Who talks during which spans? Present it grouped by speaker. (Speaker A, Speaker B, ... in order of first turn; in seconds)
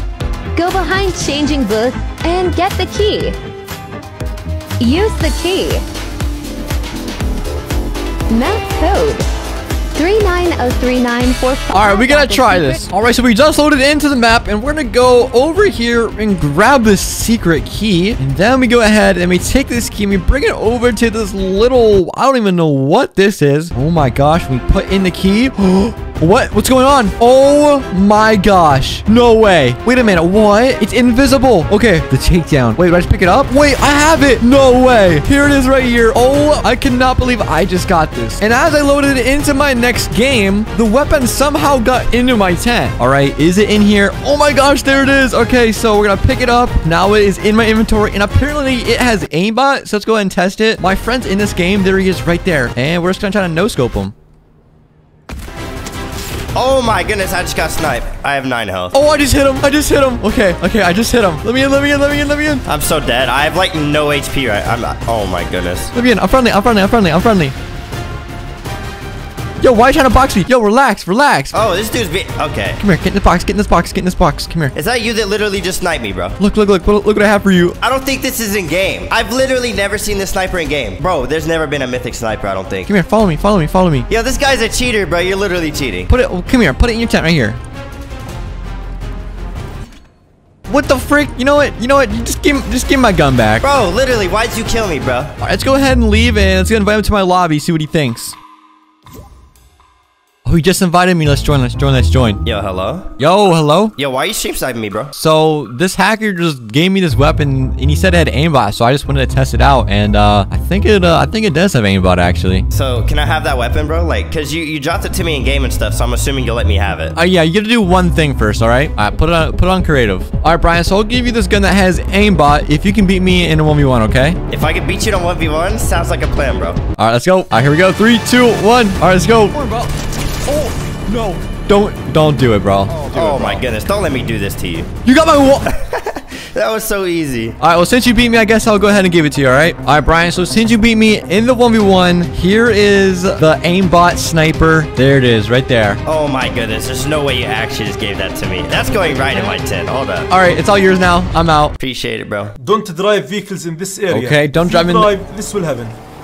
Speaker A: 0.5-3.4, 4.8-5.8, 8.3-9.3, 9.9-12.9
Speaker B: 11.7-54.1, 58.9-62.6, 65.9-67.5, 69.6-71.6, 72.8-74.8, 76.4-77.8, 82.9-84.1, 86.1-87.6, 90.7-93.7, 95.4-98.4, 100.5-102.4, 103.2-104.0, 105.1-112.7, 117.1-124.4, 127.0-129.9, 130.5-133.6, 135.0-135.7, 137.6-146.0, 150.3-151.8, 154.1-155.1
Speaker C: 56.5-58.9, 62.7-65.9, 71.5-72.8, 74.8-76.4, 77.8-82.9, 84.1-86.1, 93.6-95.3, 102.5-103.1, 104.0-105.1, 112.7-117.2, 124.5-126.8, 132.9-134.9, 135.7-137.6, 146.0-150.3, 151.8-152.5
Speaker D: 152.6-155.9